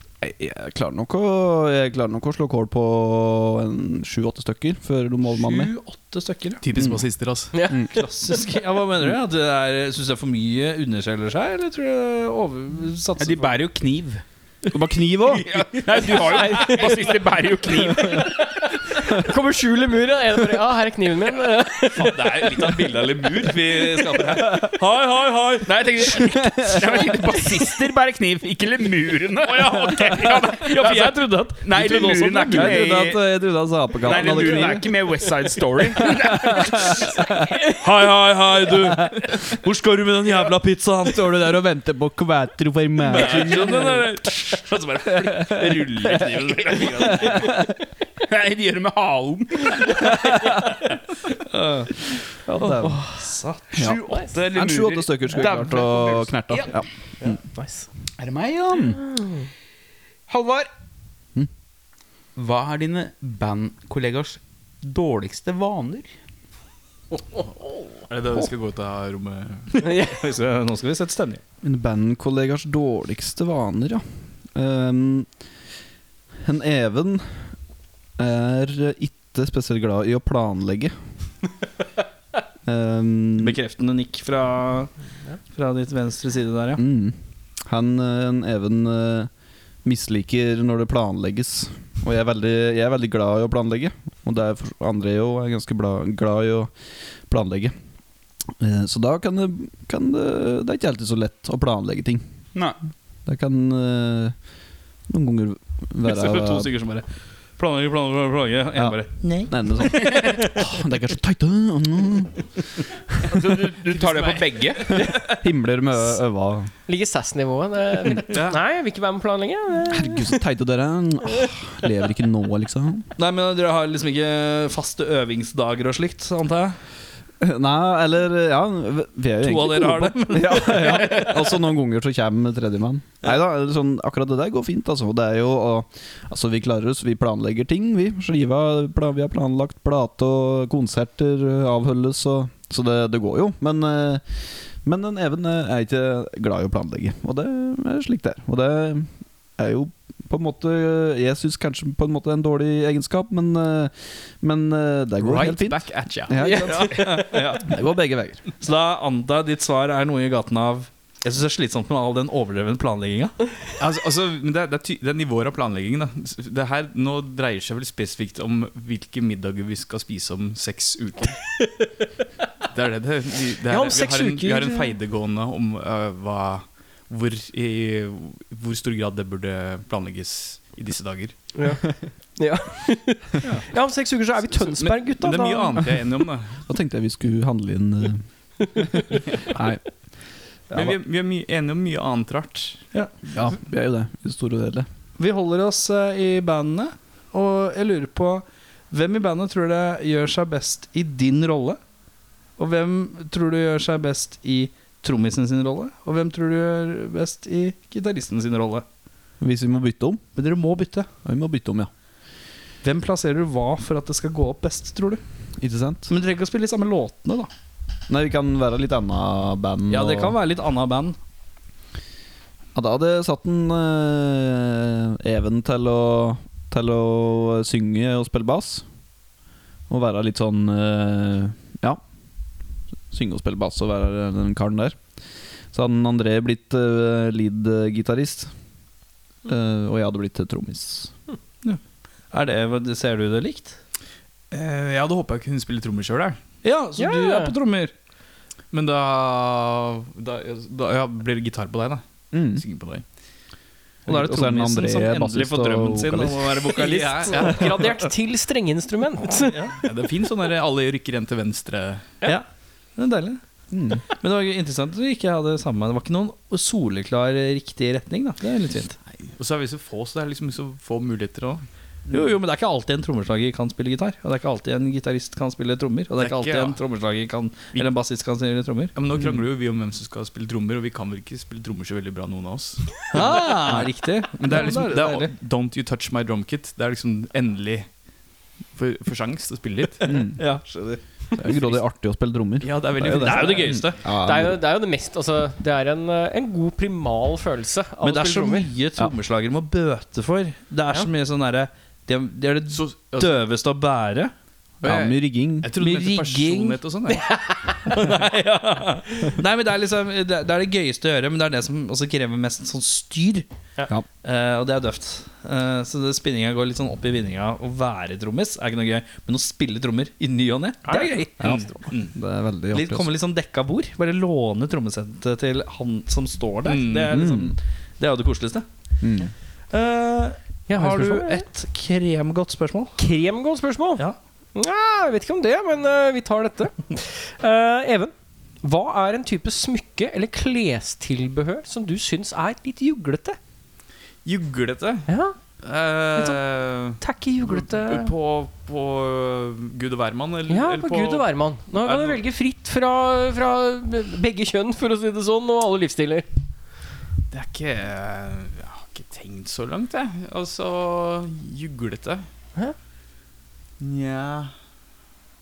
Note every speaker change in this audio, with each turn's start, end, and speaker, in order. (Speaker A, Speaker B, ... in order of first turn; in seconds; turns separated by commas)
Speaker A: 0.2-5.7, Speaker B: 5.2-6.6, Speaker C: 6.6-7.7, Speaker A: 6.7-7.1, Speaker D: 7.5-7.8, Speaker B: 7.8-13.5, Speaker E: 13.2-14.2, Speaker A: 14.7-15.5, Speaker E: 15.4-18.4, Speaker D: 16.1-16.9, Speaker D: 18.1-22.7, Speaker C: 22.0-24.8, Speaker B: 22.2-26.1, Speaker E: 25.6-33.3, Speaker A: 26.3-27.1, Speaker B: 29.6-33.1, Speaker A: 32.5-34.9, Speaker E: 34.0-37.1, Speaker B: 34.2-34.7, Speaker A: 36.2-37.2, Speaker B: 37.7-41.3, Speaker A: 41.1-44.0, Speaker B: 43.0-47.5, Speaker C: 43.1-44.0, Speaker E: 46.9-47.5, Speaker E: 48.2-50.2, Speaker B: 51.4-52.0, Speaker A: 52.5-53.0, Speaker B: 52.6-53.8, Speaker D: 52.8-53.2, Speaker E: 53.7-56.8, Speaker A: 53.7-57.4, Speaker D: 54.0-54.3, Speaker D: 57.5-57.9, Speaker E: 58.2-59.0, Speaker E: 60.3-60.7, Speaker E: 62.4-66.1, Speaker C: 68.1-69.8, Speaker B: 69.7-71.4, Speaker D: 69.8-70.2, Speaker A: 71.6-74.0, Speaker A: 74.5-75.3, Speaker A: 76.4-77.4, Speaker A: 78.2-80.9, Speaker A: 82.7-83.6, Speaker B: 83.4-84.9, Speaker B: 85.5-86.8, Speaker A: 86.8-89.3, Speaker A: 89.8-96.7, Speaker A: 97.3-97.7, Speaker A: 98.6-102.2, Speaker A: 103.2-104.3, Speaker A: 105.1-106.7, Speaker B: 106.0-107.0, Speaker B: 107.6-110.6, Speaker A: 109.5-112.5, Speaker E: 113.3-115.0, Speaker C: 113.9-114.6, Speaker A: 115.2-116.7, Speaker D: 116.8-120.4, Speaker C: 118.2-118.6, Speaker A: 119.9-123.1, Speaker B: 123.2-126.8, Speaker A: 127.4-158.4, Speaker B: 129.4-131.6, Speaker C: 155.2-156.9, Speaker B: 156.4-157.7, Speaker D: 156.4-156.7, Speaker B: 158.6-163.5, Speaker C: 163.8-171.4, Speaker C: 172.7-181.3, Speaker D: 173.7-174.9, Speaker D: 181.5-181.8, Speaker D: 182.3-185.8, Speaker C: 184.5-186.6, Speaker A: 186.7-189.9, Speaker C: 190.7-192.8, Speaker A: 193.3-194.9, Speaker B: 195.2-201.8, Speaker B: 202.6-208.8, Speaker A: 209.4-210.2, Speaker B: 210.3-211.1, Speaker A: 211.2-211.9, Speaker B: 212.8-215.2, Speaker A: 215.6-216.1, Speaker B: 216.1-217.5, Speaker A: 218.1-220.3, Speaker B: 219.9-221.2, Speaker A: 222.7-228.8, Speaker A: 229.9-232.0, Speaker A: 233.1-235.0, Speaker A: 235.7-238.5, Speaker A: 239.4-241.1, Speaker B: 242.3-243.8, Speaker C: 244.5-246.4, Speaker B: 246.6-247.9, Speaker D: 247.0-247.5, Speaker C: 248.7-253.0, Speaker A: 252.3-252.6, Speaker A: 254.1-256.5, Speaker B: 254.1-257.9, Speaker D: 256.7-259.6, Speaker C: 256.8-257.7, Speaker B: 259.5-259.8, Speaker C: 259.8-262.1, Speaker B: 263.0-263.4, Speaker A: 263.7-264.0, Speaker B: 264.2-269.0, Speaker C: 269.1-271.6, Speaker B: 272.1-278.9, Speaker C: 276.2-276.8, Speaker C: 278.9-287.9, Speaker B: 283.1-285.3, Speaker C: 288.7-290.1, Speaker B: 290.0-291.0, Speaker A: 290.1-290.4, Speaker A: 291.4-294.6, Speaker C: 291.4-291.8, Speaker C: 292.6-293.9, Speaker B: 293.1-294.0, Speaker D: 294.2-298.7, Speaker B: 298.0-304.3, Speaker C: 302.7-303.4, Speaker A: 304.8-305.7, Speaker C: 304.8-307.3, Speaker B: 305.8-306.8, Speaker B: 307.8-313.4, Speaker B: 314.2-321.9, Speaker D: 320.8-321.8, Speaker C: 321.4-322.1, Speaker A: 321.4-323.1, Speaker B: 322.7-328.6, Speaker C: 326.6-327.1, Speaker A: 327.1-327.5, Speaker A: 329.0-329.3, Speaker B: 329.7-333.0, Speaker D: 330.7-331.4, Speaker D: 333.0-334.0, Speaker D: 334.5-343.4, Speaker C: 344.2-345.1, Speaker D: 345.1-345.3, Speaker C: 345.6-352.2, Speaker D: 347.0-348.1, Speaker D: 350.5-356.3, Speaker C: 357.3-362.2, Speaker C: 363.8-364.5